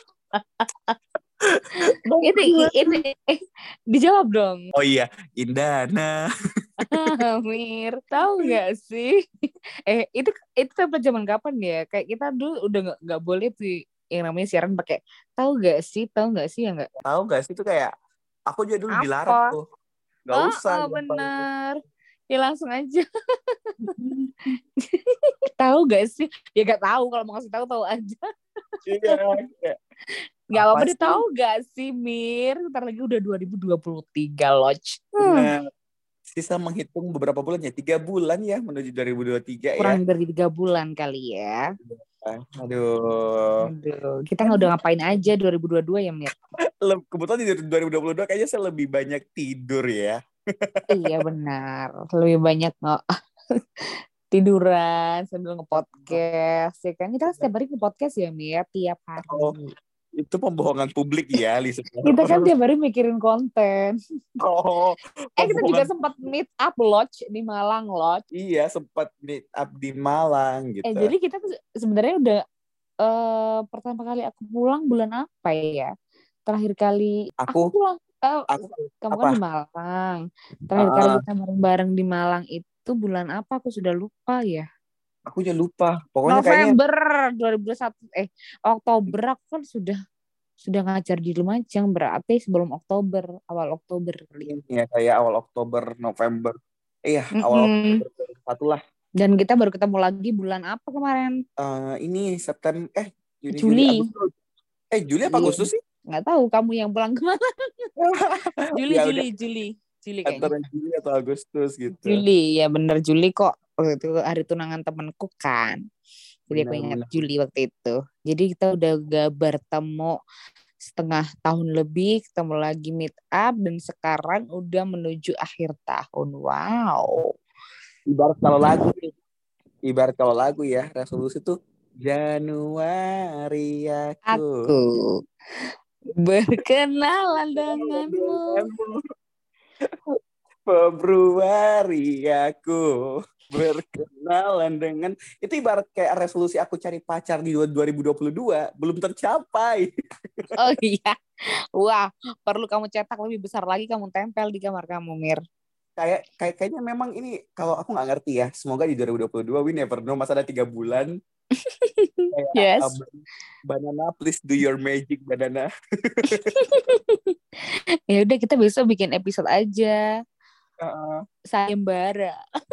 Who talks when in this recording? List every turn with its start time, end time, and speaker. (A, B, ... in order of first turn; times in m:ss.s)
0:00.4-0:00.9 A
0:01.5-0:02.9 B
0:02.2-0:03.3 A
0:03.9-0:04.7 A
0:04.7-0:06.2 B
0:06.8-0:07.2 B
0:06.9-0:09.2 A
0:08.2-0:08.5 B
0:09.9-0:16.9 A
0:17.0-0:17.9 B
0:18.5-0:19.6 B
0:18.9-0:19.6 A
0:20.2-0:21.4 B
0:20.3-0:21.8 A
0:22.3-0:23.9 A
0:23.8-0:24.1 B
0:25.6-0:28.2 A
0:28.9-0:29.8 B
0:30.5-0:35.5 A
0:30.5-0:31.2 B
0:35.2-0:35.6 B
0:36.3-0:40.0 B
0:39.8-0:41.6 A
0:41.8-0:43.7 B
0:43.6-0:46.3 A
0:44.4-0:44.7 B
0:46.8-0:51.1 B
0:50.9-0:53.0 A
0:54.3-0:59.7 A
0:55.7-0:56.2 B
0:59.2-0:59.5 B
1:00.2-1:02.5 B
1:02.0-1:04.0 A
1:04.4-1:05.9 B
1:05.4-1:08.2 A
1:08.3-1:11.1 B
1:10.8-1:12.4 A
1:13.0-1:15.9 A
1:16.5-1:18.4 A
1:18.5-1:19.4 B
1:19.0-1:24.6 A
1:20.8-1:21.2 B
1:25.3-1:26.7 B
1:26.3-1:30.0 A
1:30.6-1:34.5 A
1:34.4-1:36.6 B
1:37.1-1:38.8 B
1:37.4-1:38.0 A
1:39.2-1:41.3 A
1:41.6-1:44.3 B
1:43.5-1:44.0 A
1:44.9-1:45.8 B
1:45.2-1:47.9 A
1:48.0-1:49.2 B
1:48.8-1:50.6 A
1:50.2-1:52.2 B
1:51.9-1:55.8 A
1:56.5-1:57.2 B
1:56.5-2:00.2 A
2:00.9-2:07.3 A
2:08.1-2:09.1 B
2:09.9-2:14.7 B
2:14.3-2:14.8 A
2:16.2-2:18.6 A
2:17.6-2:19.0 B
2:20.6-2:29.9 B
2:30.6-2:31.2 A
2:31.8-2:35.4 A
2:36.0-2:41.1 B
2:41.7-2:43.0 A
2:42.3-2:46.3 B
2:46.4-2:47.3 A
2:48.1-2:50.0 A
2:50.8-2:51.2 B
2:51.5-2:52.2 A